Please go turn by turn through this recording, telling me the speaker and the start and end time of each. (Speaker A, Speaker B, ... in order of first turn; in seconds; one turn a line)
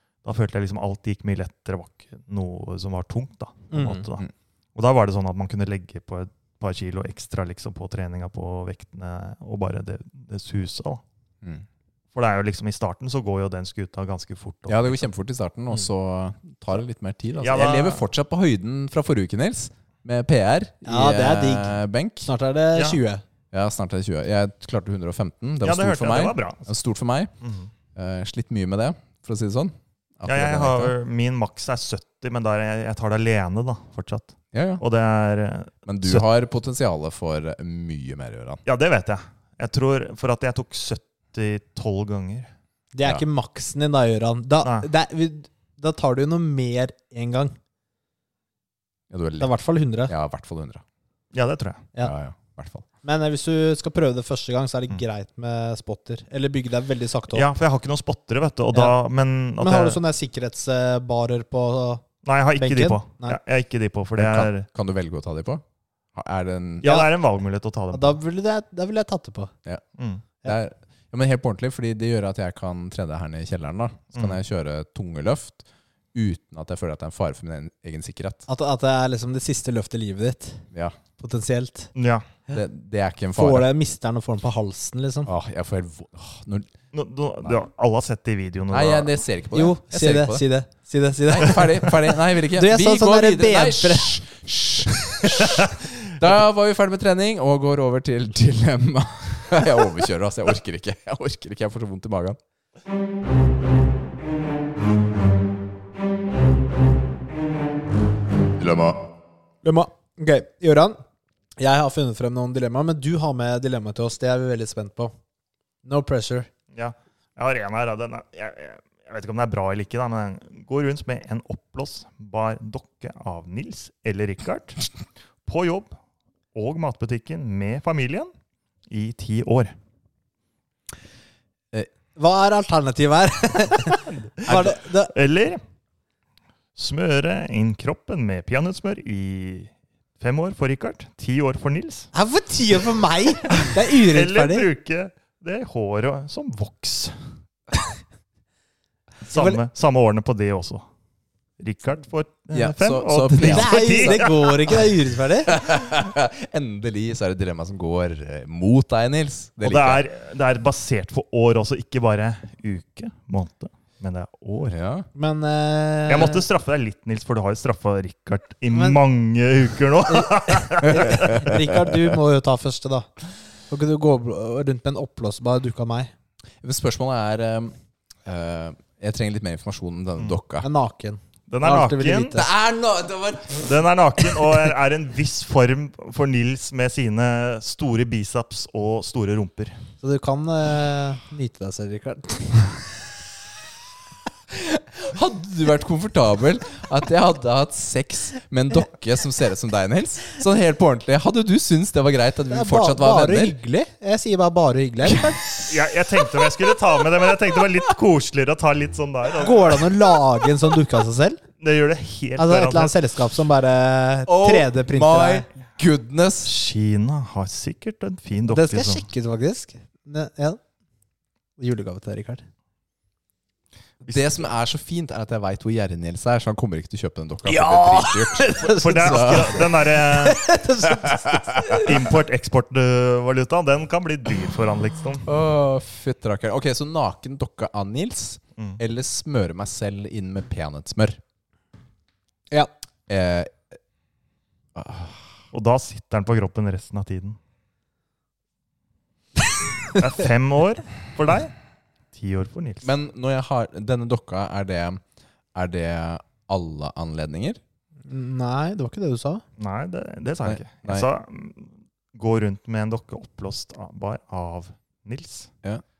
Speaker A: 0.2-11.0
Speaker B: 3.7-4.0
Speaker A: 12.1-15.0
Speaker C: 14.7-22.3
Speaker A: 17.4-18.0
Speaker B: 20.8-23.2
Speaker C: 23.5-27.3
Speaker A: 25.6-26.6
Speaker A: 27.4-27.7
Speaker C: 27.9-30.9
Speaker A: 30.2-36.2
Speaker C: 34.5-34.8
Speaker C: 35.9-38.6
Speaker A: 38.6-42.5
Speaker B: 42.9-47.5
Speaker A: 44.6-44.9
Speaker C: 49.1-49.5
Speaker B: 49.4-50.1
Speaker C: 50.1-50.8
Speaker A: 51.3-51.9
Speaker C: 52.0-52.9
Speaker B: 53.0-57.5
Speaker A: 57.3-60.0
Speaker B: 59.6-62.0
Speaker A: 62.2-64.7
Speaker B: 62.6-63.4
Speaker C: 64.2-65.6
Speaker C: 66.1-66.9
Speaker A: 66.8-68.2
Speaker B: 66.8-67.1
Speaker B: 67.9-69.5
Speaker A: 70.0-70.2
Speaker C: 70.4-78.5
Speaker A: 74.1-74.4
Speaker B: 78.5-80.6
Speaker B: 81.2-81.9
Speaker A: 81.9-82.3
Speaker C: 82.5-83.7
Speaker B: 83.3-85.3
Speaker C: 85.2-86.7
Speaker A: 86.9-89.2
Speaker C: 88.7-90.4
Speaker B: 89.5-92.0
Speaker C: 91.3-102.4
Speaker B: 92.5-94.2
Speaker C: 108.6-109.0
Speaker B: 109.6-111.0
Speaker B: 111.6-115.1
Speaker B: 115.8-116.5
Speaker A: 116.7-124.9
Speaker A: 125.5-125.9
Speaker A: 126.5-128.3
Speaker A: 128.9-129.7
Speaker B: 132.2-135.1
Speaker A: 134.4-135.6
Speaker A: 136.8-142.1
Speaker B: 142.1-144.7
Speaker A: 143.5-147.2
Speaker A: 149.2-150.8
Speaker B: 149.3-149.6
Speaker A: 151.6-154.8
Speaker C: 152.5-154.2
Speaker B: 153.4-155.6
Speaker C: 155.5-160.0
Speaker A: 159.6-164.8
Speaker C: 164.7-165.1
Speaker B: 165.1-166.4
Speaker A: 166.1-171.6
Speaker B: 168.7-169.0
Speaker B: 170.1-173.1
Speaker B: 173.7-176.1
Speaker C: 176.6-177.7
Speaker C: 178.2-180.7
Speaker B: 180.6-182.5
Speaker A: 181.5-182.4
Speaker C: 182.3-183.8
Speaker A: 183.6-189.8
Speaker B: 190.0-192.8
Speaker C: 194.5-203.6
Speaker B: 202.5-205.4
Speaker C: 205.1-205.5
Speaker A: 205.6-209.9
Speaker B: 209.4-211.4
Speaker A: 211.6-212.9
Speaker B: 212.4-215.5
Speaker C: 214.3-216.5
Speaker A: 216.4-219.1
Speaker B: 218.5-220.6
Speaker B: 221.6-222.4
Speaker A: 224.0-224.3
Speaker C: 224.1-229.7
Speaker B: 227.4-231.9
Speaker A: 228.7-230.4
Speaker C: 231.2-231.8
Speaker A: 231.7-235.3
Speaker C: 235.2-241.2
Speaker C: 243.1-243.8
Speaker C: 244.7-245.3
Speaker A: 245.5-247.4
Speaker A: 249.9-251.5
Speaker A: 252.1-252.9
Speaker C: 252.8-255.0
Speaker C: 255.5-257.6
Speaker B: 258.1-259.4
Speaker A: 259.6-265.5
Speaker C: 260.4-261.1